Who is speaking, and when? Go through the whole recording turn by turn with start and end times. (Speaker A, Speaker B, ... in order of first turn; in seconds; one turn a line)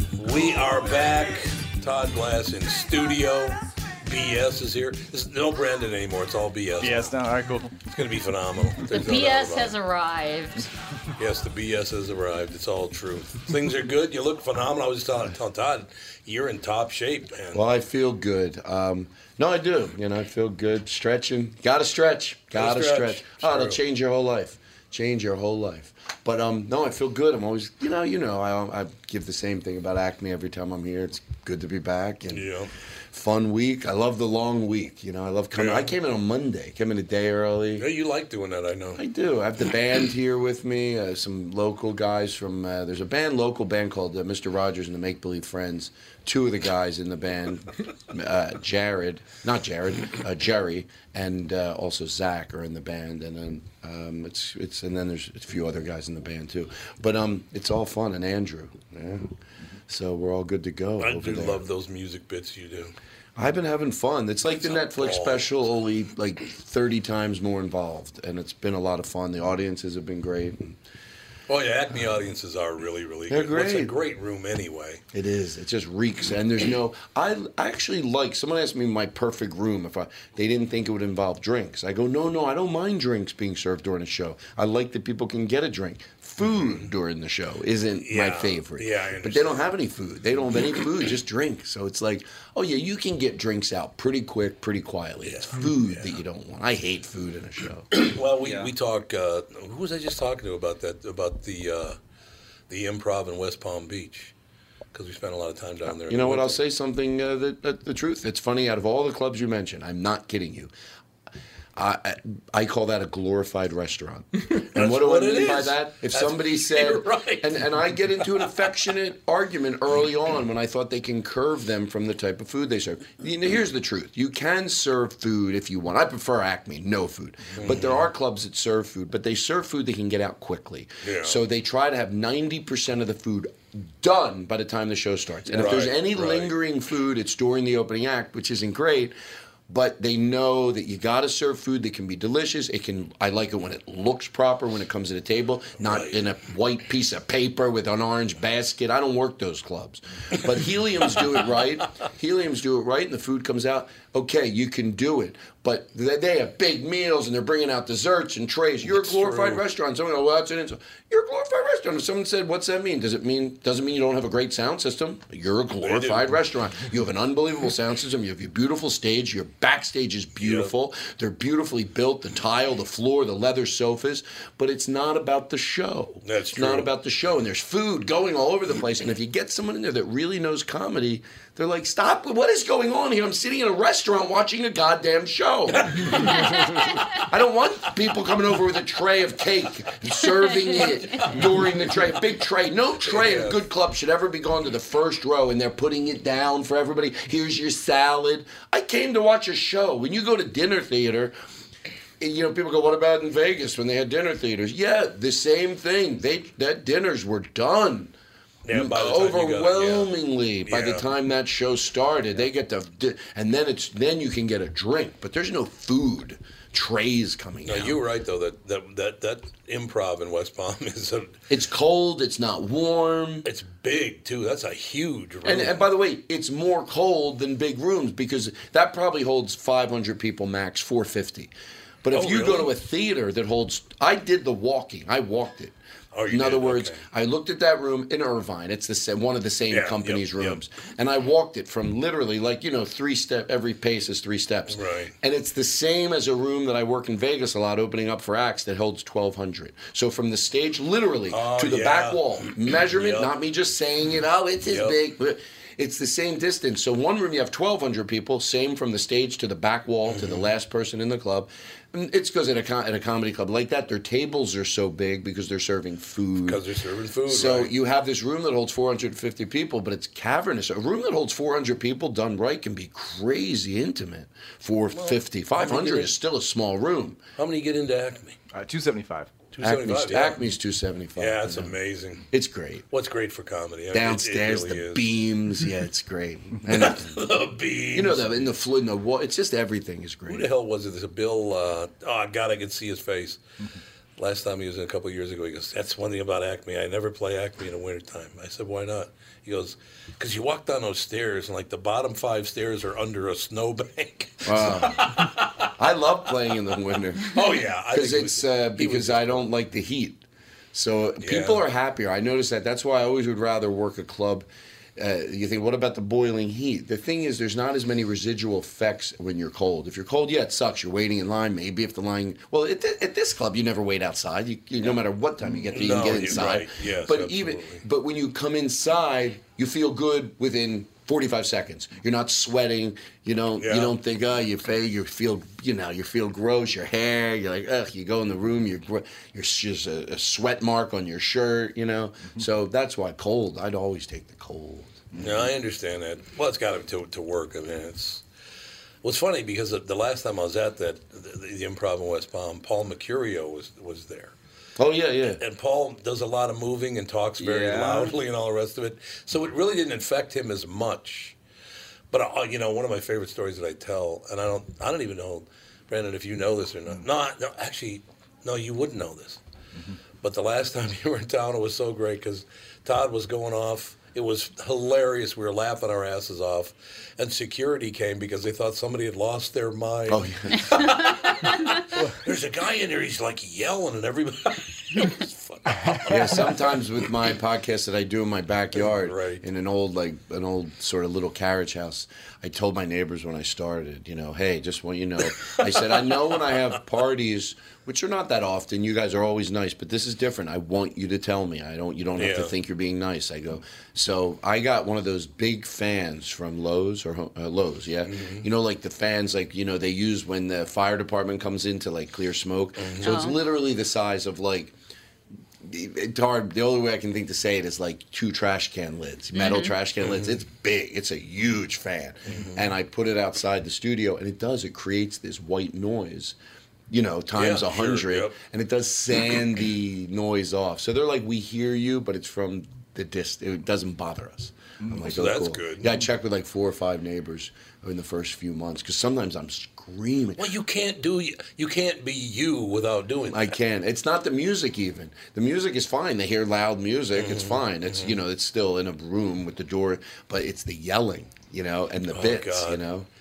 Speaker A: 0.1-7.1
Speaker B: 6.8-7.7
Speaker A: 7.8-9.8
Speaker C: 8.9-10.7
Speaker A: 11.2-17.6
Speaker D: 17.5-32.5
Speaker A: 22.5-23.8
Speaker A: 32.3-32.7
Speaker D: 33.1-37.9
Speaker A: 35.5-35.9
Speaker A: 37.8-39.0
Speaker D: 39.0-59.3
Speaker D: 59.9-61.6
Speaker A: 61.0-62.9
Speaker D: 63.4-70.8
Speaker A: 64.5-65.5
Speaker A: 71.5-75.0
Speaker D: 73.3-73.9
Speaker D: 75.1-97.9
Speaker A: 86.4-86.8
Speaker A: 88.0-89.6
Speaker A: 95.2-96.2
Speaker A: 97.9-102.0
Speaker B: 98.4-98.7
Speaker A: 102.7-104.3
Speaker A: 104.9-106.6
Speaker D: 106.1-110.7
Speaker D: 111.8-139.1
Speaker A: 114.7-117.7
Speaker A: 118.2-118.7
Speaker A: 127.5-128.1
Speaker A: 131.0-131.4
Speaker A: 135.5-136.5
Speaker D: 139.7-201.3
Speaker A: 145.8-146.2
Speaker A: 158.8-159.6
Speaker A: 165.8-166.3
Speaker A: 170.4-170.7
Speaker A: 176.2-176.9
Speaker A: 185.7-186.9
Speaker A: 190.9-191.5
Speaker A: 193.0-193.6
Speaker D: 202.2-208.1
Speaker A: 208.6-210.1
Speaker D: 208.7-218.0
Speaker A: 210.6-211.1
Speaker A: 217.6-221.4
Speaker D: 221.5-223.4
Speaker A: 223.4-225.9
Speaker D: 225.4-231.5
Speaker D: 232.0-235.7
Speaker A: 232.1-232.7
Speaker A: 236.1-237.0
Speaker D: 236.3-266.6
Speaker A: 239.7-240.6
Speaker A: 244.7-245.1
Speaker A: 251.3-253.3
Speaker A: 254.7-255.0
Speaker A: 260.1-260.4
Speaker A: 266.4-267.7
Speaker D: 267.3-277.2
Speaker A: 274.9-276.1
Speaker A: 277.4-278.4
Speaker B: 278.5-279.3
Speaker A: 279.5-280.4
Speaker D: 279.6-281.7
Speaker A: 281.1-282.3
Speaker D: 282.3-282.9
Speaker A: 282.9-285.1
Speaker D: 283.9-287.1
Speaker A: 286.6-288.3
Speaker D: 287.9-290.5
Speaker A: 290.3-293.4
Speaker A: 294.2-305.7
Speaker D: 304.4-305.2
Speaker D: 305.8-307.3
Speaker A: 307.2-309.5
Speaker D: 307.9-345.0
Speaker A: 311.2-311.6
Speaker A: 325.7-327.8
Speaker A: 333.6-333.9
Speaker A: 345.1-348.2
Speaker A: 349.0-354.3
Speaker D: 354.8-355.4
Speaker A: 355.3-361.4
Speaker B: 357.4-358.1
Speaker A: 362.1-369.4
Speaker A: 370.2-386.7
Speaker D: 380.1-380.8
Speaker D: 386.0-414.7
Speaker A: 388.7-389.4
Speaker A: 395.4-396.6
Speaker A: 402.2-402.5
Speaker A: 408.0-408.4
Speaker A: 412.8-413.3
Speaker C: 413.0-413.4
Speaker D: 415.6-426.3
Speaker C: 419.3-419.8
Speaker A: 420.0-420.4
Speaker A: 422.2-422.6
Speaker D: 426.9-440.4
Speaker A: 427.3-428.4
Speaker A: 434.9-435.9
Speaker A: 440.4-443.5
Speaker D: 443.3-453.1
Speaker A: 447.1-448.2
Speaker A: 452.1-452.8